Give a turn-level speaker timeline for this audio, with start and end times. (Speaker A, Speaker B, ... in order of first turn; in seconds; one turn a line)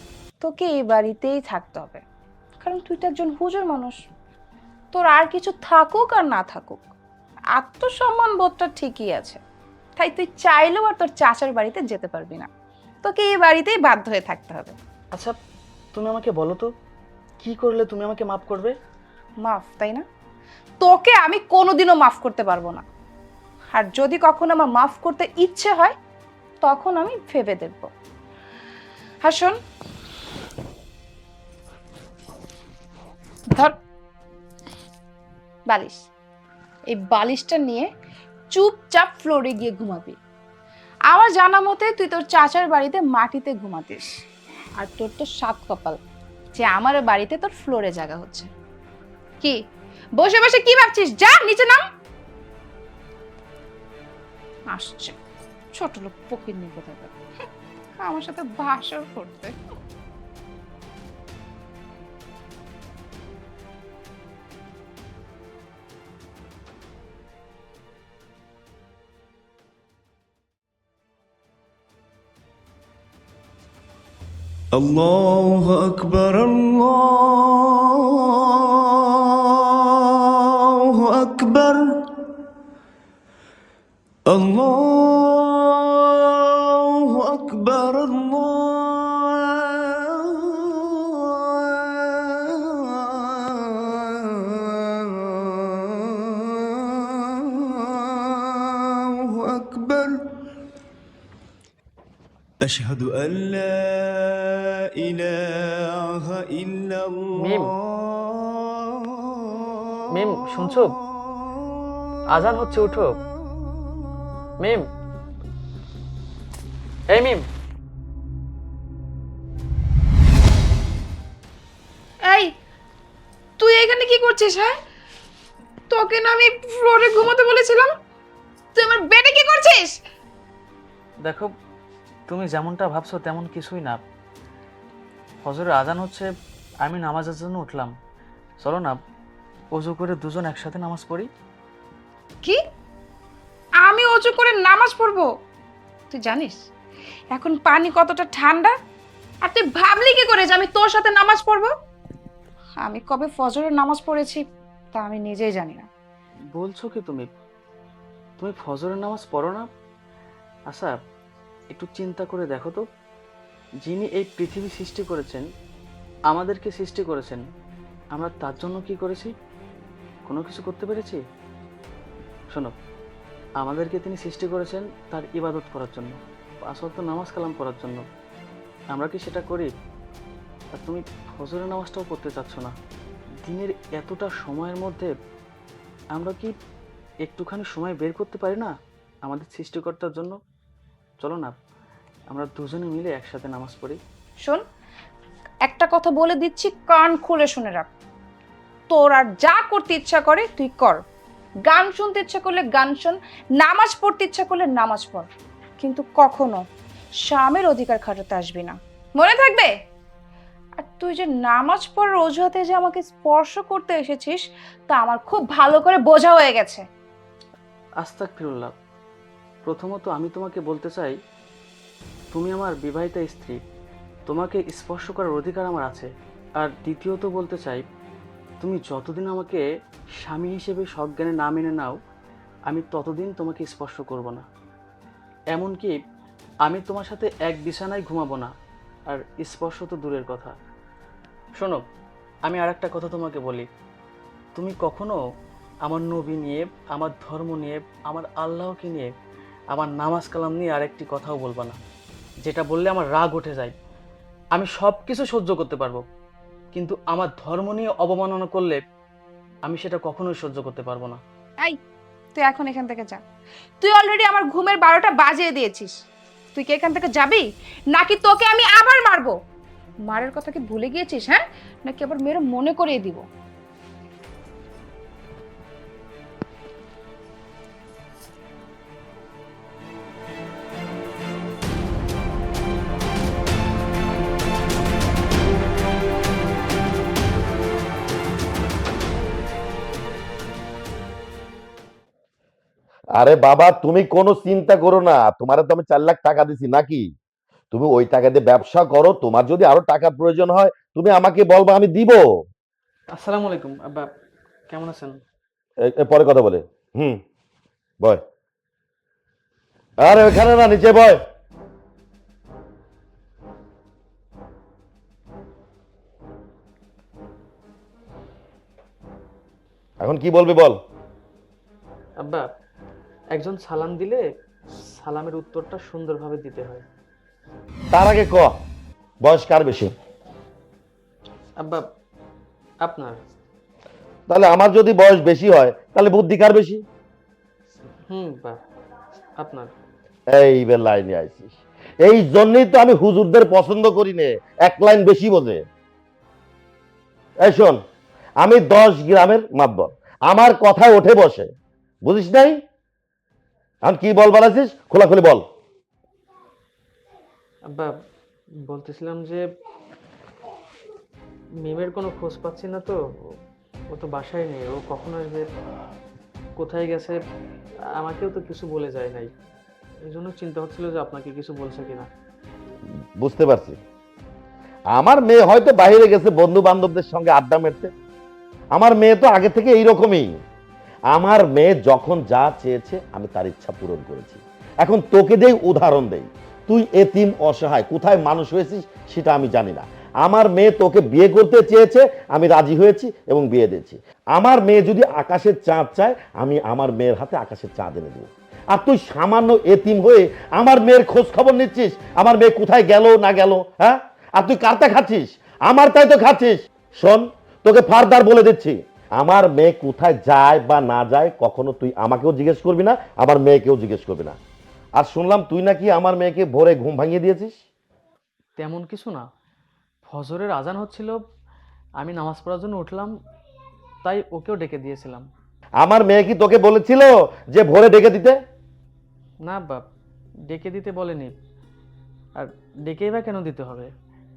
Speaker A: 0.4-2.0
Speaker A: 2.6-4.0
Speaker A: 4.9-6.9
Speaker A: 7.6-9.4
Speaker A: 10.0-12.5
Speaker A: 13.0-14.8
Speaker B: 15.9-16.7
Speaker B: 17.4-18.8
Speaker A: 19.4-20.1
Speaker A: 20.8-22.8
Speaker A: 23.7-25.9
Speaker A: 26.6-27.9
Speaker A: 29.2-29.6
Speaker A: 35.7-36.0
Speaker A: 36.9-37.9
Speaker A: 38.5-40.2
Speaker A: 41.1-44.1
Speaker A: 44.8-46.0
Speaker A: 46.5-48.5
Speaker A: 50.2-51.8
Speaker A: 54.7-55.1
Speaker A: 55.7-57.1
Speaker A: 58.0-59.5
Speaker C: 74.8-82.3
Speaker C: 84.3-100.2
Speaker C: 102.6-108.6
Speaker B: 107.4-107.7
Speaker B: 110.1-110.9
Speaker B: 112.3-113.2
Speaker B: 114.6-114.8
Speaker B: 117.1-117.4
Speaker A: 122.2-122.5
Speaker A: 123.6-124.8
Speaker A: 125.9-127.9
Speaker A: 128.7-130.0
Speaker B: 131.2-131.5
Speaker B: 132.3-134.0
Speaker B: 135.4-136.3
Speaker B: 136.8-137.9
Speaker B: 138.6-139.0
Speaker B: 139.7-141.3
Speaker A: 143.8-145.3
Speaker A: 146.1-146.6
Speaker A: 147.3-148.7
Speaker A: 149.4-151.7
Speaker A: 152.8-154.4
Speaker A: 154.9-155.9
Speaker B: 156.5-157.3
Speaker B: 158.4-159.7
Speaker B: 160.7-160.9
Speaker B: 161.7-162.8
Speaker B: 163.8-165.5
Speaker B: 166.3-167.4
Speaker B: 168.1-169.3
Speaker B: 170.3-171.2
Speaker B: 173.6-178.0
Speaker B: 178.9-179.7
Speaker B: 180.7-182.7
Speaker B: 183.4-185.1
Speaker B: 186.1-186.5
Speaker B: 187.2-188.7
Speaker B: 189.2-190.3
Speaker B: 191.2-191.6
Speaker B: 192.3-194.0
Speaker A: 195.7-197.9
Speaker A: 198.9-201.0
Speaker A: 201.7-205.3
Speaker A: 205.8-206.6
Speaker A: 207.2-209.7
Speaker A: 210.8-216.8
Speaker B: 218.0-218.7
Speaker B: 219.7-221.2
Speaker B: 222.3-223.6
Speaker B: 224.3-227.8
Speaker B: 228.6-229.7
Speaker B: 230.2-232.0
Speaker B: 232.7-234.4
Speaker B: 235.5-236.0
Speaker B: 236.7-238.5
Speaker B: 239.1-240.6
Speaker B: 241.6-241.8
Speaker B: 242.4-243.7
Speaker B: 244.6-245.2
Speaker B: 245.8-249.1
Speaker B: 249.7-251.8
Speaker B: 252.4-253.7
Speaker B: 254.5-256.0
Speaker B: 256.7-258.8
Speaker B: 259.6-261.2
Speaker A: 262.4-263.2
Speaker A: 263.8-265.9
Speaker A: 266.6-269.4
Speaker A: 270.1-273.2
Speaker D: 293.1-297.1
Speaker D: 297.7-302.4
Speaker B: 303.1-304.1
Speaker B: 304.7-305.2
Speaker D: 305.8-307.2
Speaker D: 310.0-311.2
Speaker D: 320.0-320.8
Speaker B: 322.2-322.5
Speaker B: 323.3-324.2
Speaker B: 324.9-326.8
Speaker D: 327.9-328.6
Speaker D: 329.2-329.9
Speaker B: 332.8-333.2
Speaker D: 334.3-336.8
Speaker B: 338.1-338.6
Speaker B: 339.4-339.7
Speaker D: 340.3-345.6
Speaker D: 347.4-347.8
Speaker D: 348.4-351.5
Speaker D: 352.1-352.6
Speaker D: 353.8-355.4
Speaker B: 358.6-359.4
Speaker B: 361.6-363.3
Speaker B: 363.9-365.4
Speaker B: 366.6-367.2
Speaker B: 367.9-369.3
Speaker B: 370.1-372.1
Speaker D: 373.2-373.8
Speaker D: 374.9-377.9
Speaker D: 378.7-380.4
Speaker D: 381.1-414.4
Speaker D: 414.9-417.6
Speaker B: 418.6-419.2
Speaker B: 420.1-421.2
Speaker B: 422.0-423.1
Speaker B: 424.0-425.2
Speaker D: 425.8-428.4
Speaker B: 429.4-429.8
Speaker B: 430.5-431.3
Speaker B: 432.3-433.9